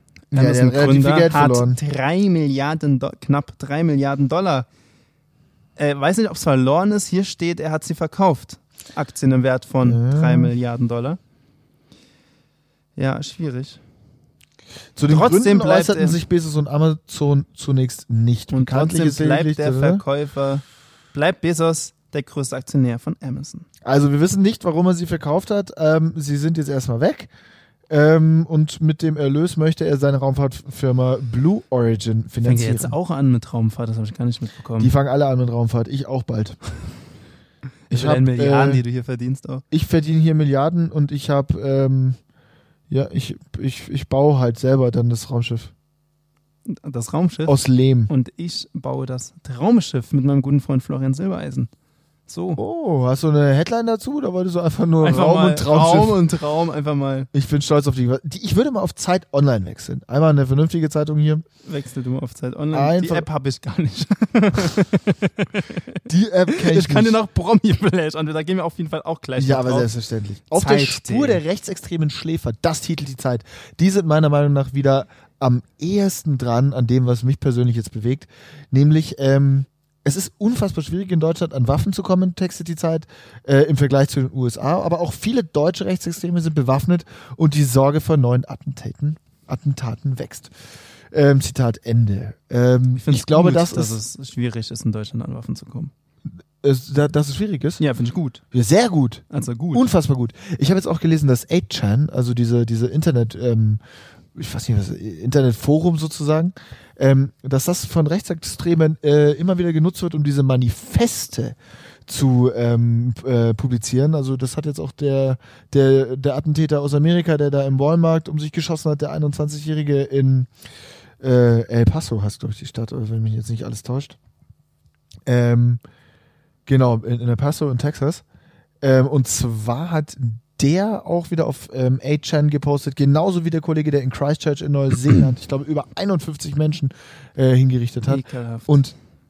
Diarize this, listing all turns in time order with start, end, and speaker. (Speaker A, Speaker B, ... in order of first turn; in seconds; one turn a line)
Speaker A: 0.3-4.7
Speaker B: 0.3-1.8
Speaker A: 5.8-11.2
Speaker B: 9.8-10.5
Speaker A: 12.9-13.8
Speaker B: 14.9-20.0
Speaker A: 15.1-16.2
Speaker A: 18.5-23.6
Speaker B: 23.8-27.3
Speaker B: 27.9-32.9
Speaker A: 32.4-34.9
Speaker B: 34.8-36.6
Speaker A: 37.9-39.6
Speaker B: 37.9-38.8
Speaker B: 39.7-42.2
Speaker B: 42.9-45.7
Speaker A: 46.6-47.5
Speaker B: 47.5-48.1
Speaker A: 48.1-51.7
Speaker A: 52.3-52.6
Speaker B: 52.5-56.2
Speaker A: 55.0-57.3
Speaker B: 57.3-61.5
Speaker A: 61.6-66.0
Speaker B: 62.7-63.3
Speaker B: 66.0-67.2
Speaker A: 66.5-69.9
Speaker B: 69.4-90.5
Speaker A: 70.5-71.4
Speaker B: 91.1-94.0
Speaker A: 93.0-95.9
Speaker B: 96.6-97.8
Speaker A: 97.8-98.4
Speaker B: 98.5-103.8
Speaker A: 99.3-99.8
Speaker B: 104.3-111.5
Speaker B: 112.1-120.5
Speaker B: 121.2-124.2
Speaker B: 125.3-125.8
Speaker B: 126.7-128.2
Speaker B: 128.8-138.9
Speaker A: 138.1-138.7